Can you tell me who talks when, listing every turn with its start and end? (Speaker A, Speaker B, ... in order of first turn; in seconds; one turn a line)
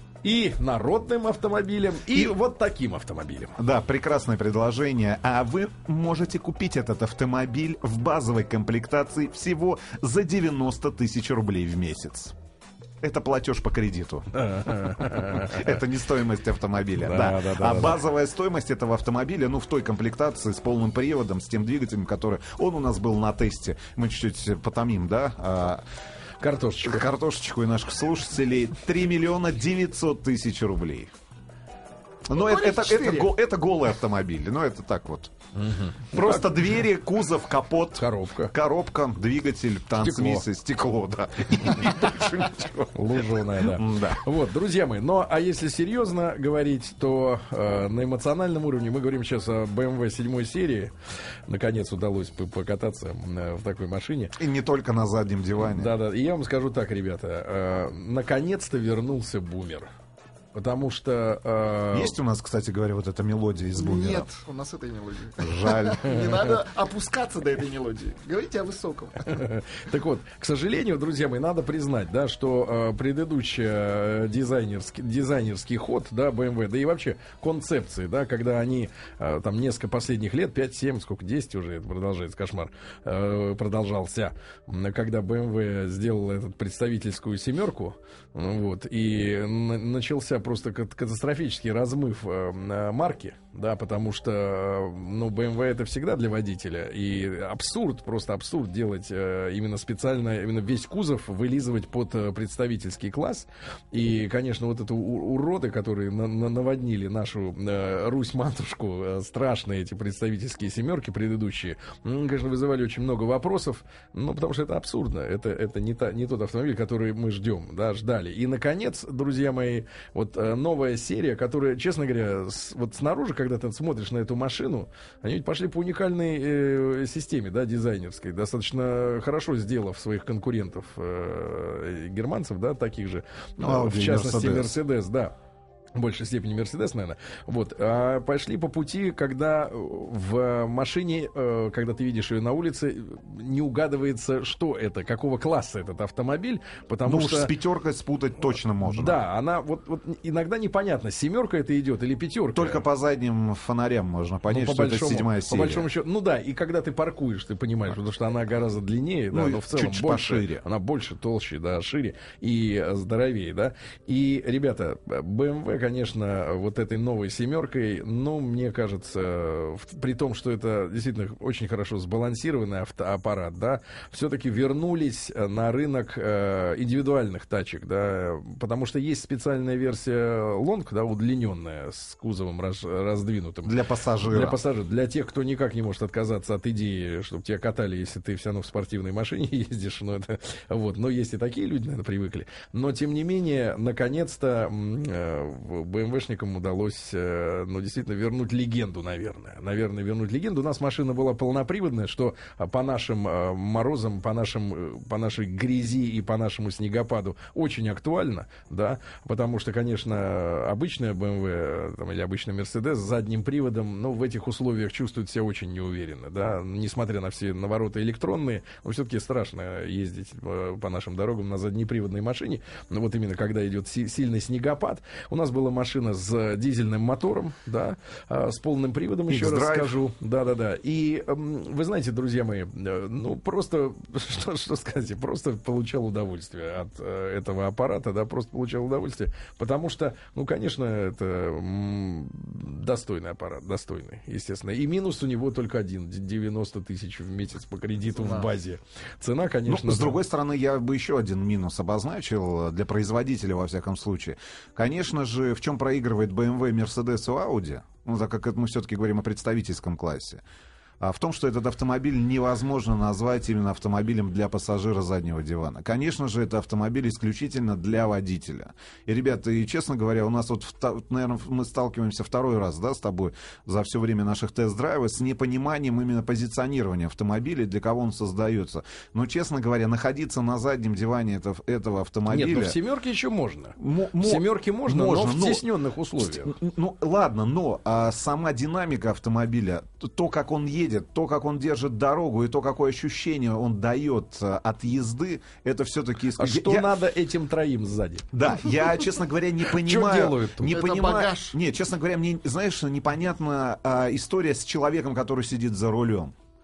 Speaker A: 0.2-3.6
Speaker B: 3.6-12.3
Speaker B: 13.0-25.8
Speaker A: 14.3-15.8
Speaker A: 17.0-18.0
Speaker A: 26.4-27.1
Speaker B: 26.8-31.1
Speaker B: 32.3-35.3
Speaker C: 32.6-33.0
Speaker A: 35.5-36.5
Speaker B: 36.1-44.2
Speaker A: 38.0-38.5
Speaker A: 40.0-40.5
Speaker A: 42.9-50.9
Speaker A: 51.5-54.4
Speaker B: 54.4-55.9
Speaker A: 55.6-59.9
Speaker A: 60.5-62.2
Speaker B: 61.9-64.3
Speaker C: 63.8-69.2
Speaker B: 65.4-66.1
Speaker A: 69.2-135.3
Speaker B: 133.6-134.8
Speaker A: 135.9-147.5
Speaker B: 147.0-149.2
Speaker A: 148.9-152.8
Speaker B: 152.6-155.9
Speaker A: 154.5-250.2
Speaker B: 159.3-160.6
Speaker B: 183.7-184.6
Speaker B: 229.3-230.0
Speaker B: 249.7-260.4
Speaker B: 261.0-282.8
Speaker A: 282.3-286.6
Speaker B: 283.8-285.6
Speaker B: 286.2-296.9
Speaker A: 296.4-298.3
Speaker B: 298.3-306.3
Speaker A: 299.7-300.8
Speaker C: 300.7-301.6